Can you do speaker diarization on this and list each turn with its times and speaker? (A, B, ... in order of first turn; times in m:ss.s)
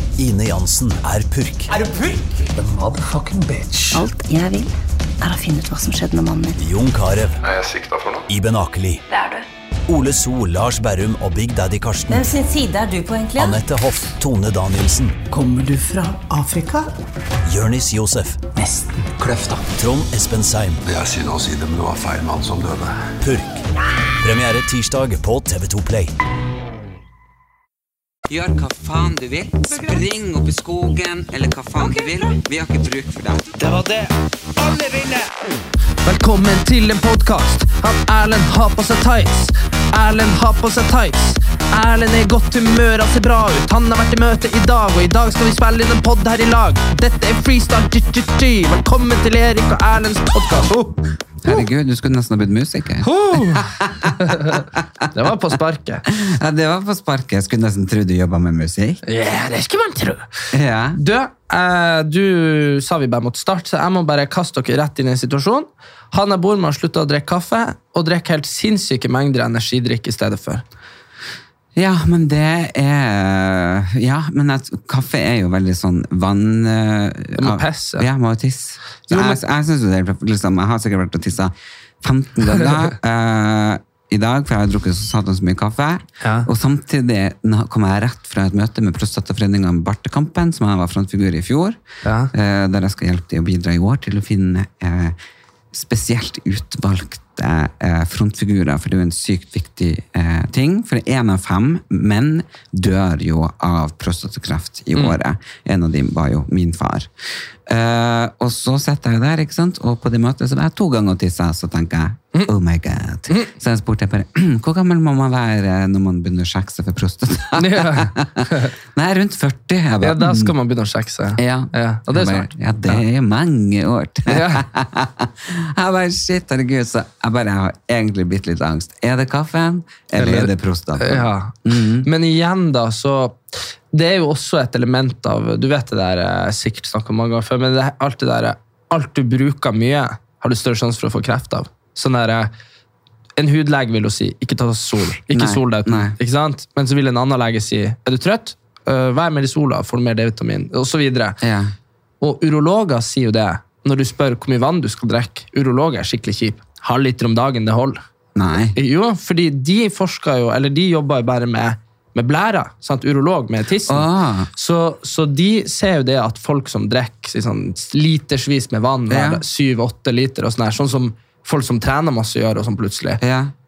0:00.2-0:01.7 A
0:02.5-0:04.0 B
0:03.9-0:06.6 C
0:06.6-0:07.4 A
0:07.4-0:08.2 D
0:08.3-0:09.0 A
0:09.1-0:09.4 E
0:09.9-0:12.3 A
0:12.1-0:13.6 E
0:13.4-0:15.2 A
0:15.3-0:16.9 B
0:17.4-0:18.4 A
0:18.5-0:19.7 B
0:19.8-0:20.8 A
0:20.8-0:23.0 D
0:23.2-0:23.6 A
0:24.2-0:26.1 A
0:28.3-0:33.5 F
0:33.6-0:35.3 G
0:36.0-0:51.6 G
0:51.4-0:54.8 F
0:53.0-0:56.0 G
0:56.1-0:59.0 F
0:59.0-1:00.3 G
1:00.5-1:01.0 F
1:00.9-1:10.6 G
1:11.8-1:31.8 F
1:17.4-1:18.1 G
1:19.1-1:19.4 G
1:26.2-1:26.5 G
1:32.0-1:32.3 G
1:32.3-1:35.2 F
1:35.7-1:47.1 F
1:47.6-2:00.5 F
1:57.5-1:58.7 G
2:00.0-2:03.0 G
2:01.4-2:12.1 F
2:04.3-2:04.6 G
2:10.2-2:22.5 G
2:23.4-2:31.4 G
2:25.3-2:26.2 F
2:31.4-2:31.7 F
2:32.2-2:38.0 G
2:38.4-2:38.8 F
2:38.8-2:53.2 G
2:43.9-2:44.5 F
2:49.1-2:49.4 F
2:53.2-2:53.5 F